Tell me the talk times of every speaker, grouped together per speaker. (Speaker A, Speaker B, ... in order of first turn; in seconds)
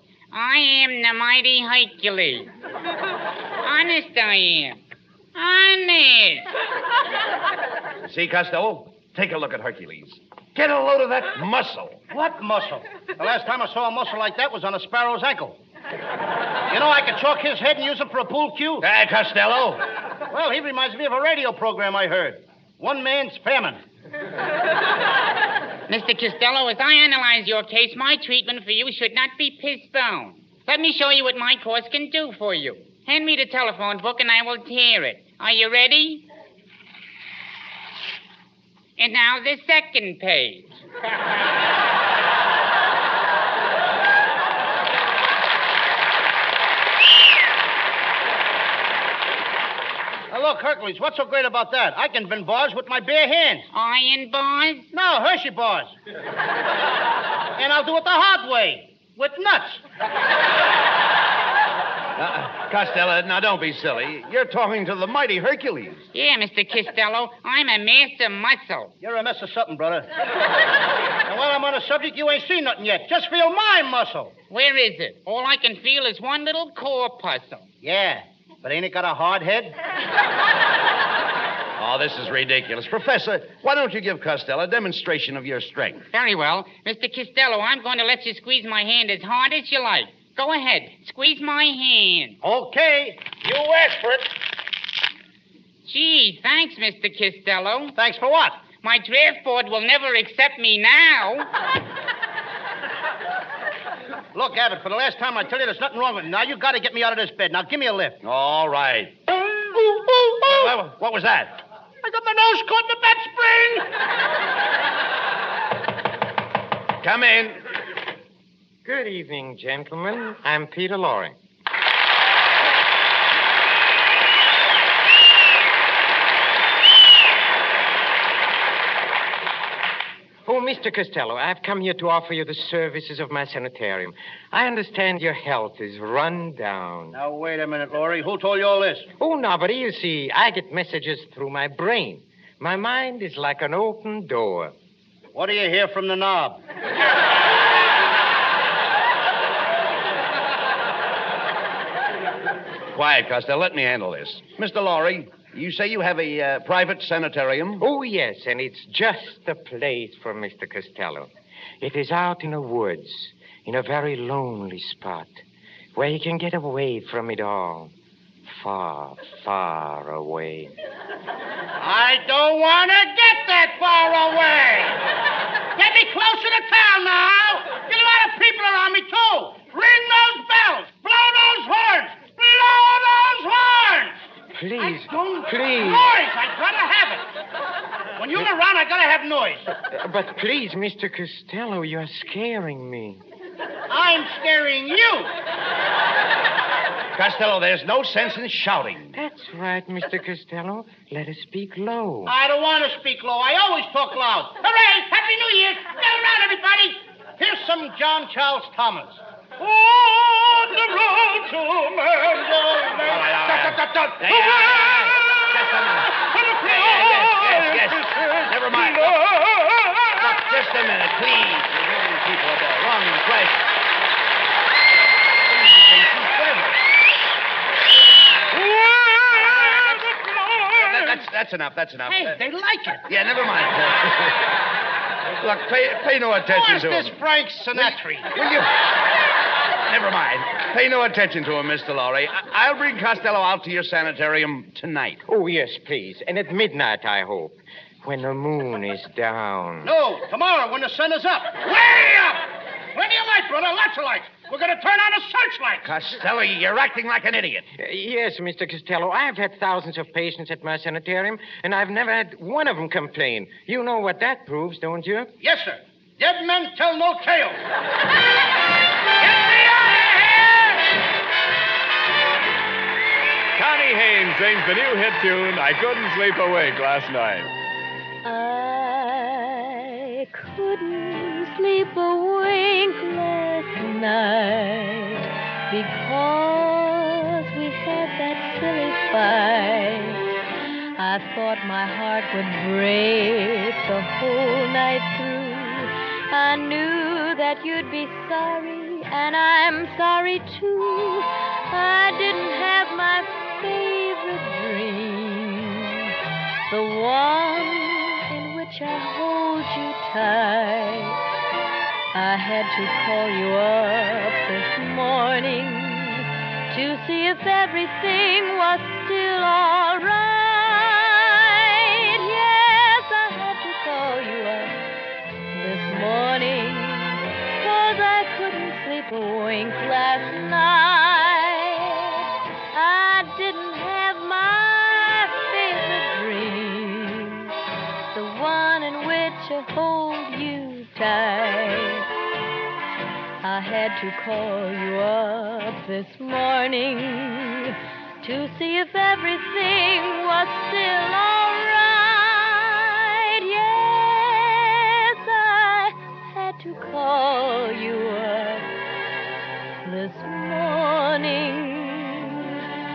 Speaker A: 0.3-2.5, 3.6-4.8, 5.3-6.5, 25.9-36.2, 39.0-40.8, 53.7-54.9, 66.1-68.9, 74.5-77.7, 86.1-92.4, 95.8-98.0, 98.8-101.5
Speaker B: 8.1-12.0, 18.8-19.8, 62.2-66.0, 81.8-86.0, 108.2-109.2, 110.4-111.6, 117.0-117.6, 152.9-157.8, 197.2-199.2, 213.0-219.2, 220.2-223.7, 225.5-226.8, 229.3-230.0, 230.8-232.4, 233.1-234.4, 235.4-237.2, 237.8-238.7, 239.9-245.2, 255.8-257.7
Speaker C: 12.1-15.6, 16.7-18.9, 20.3-23.8, 50.3-53.7, 54.9-55.9, 57.6-59.8, 69.0-70.1, 71.3-74.3, 77.8-79.8, 92.4-94.3, 98.0-98.6, 104.3-108.2, 109.6-110.7, 112.0-113.9, 137.1-139.1, 145.3-146.6, 171.8-175.0, 175.8-184.2, 184.8-187.3, 188.2-189.7, 193.9-195.3, 202.3-215.2, 216.1-220.2, 228.6-231.2, 232.1-233.0, 236.4-238.3, 249.8-255.9, 265.4-267.6, 269.2-270.8
Speaker D: 118.8-121.4, 130.5-137.2, 139.2-144.7, 157.8-165.4, 165.9-167.9, 168.5-170.7, 184.5-186.1, 189.8-193.2, 199.1-202.3, 245.3-249.9, 257.8-265.3
Speaker E: 273.6-277.5
Speaker F: 278.2-290.2, 291.0-306.1, 306.7-311.2, 312.1-324.8, 325.5-337.5, 338.1-342.1, 343.4-358.7, 359.8-362.6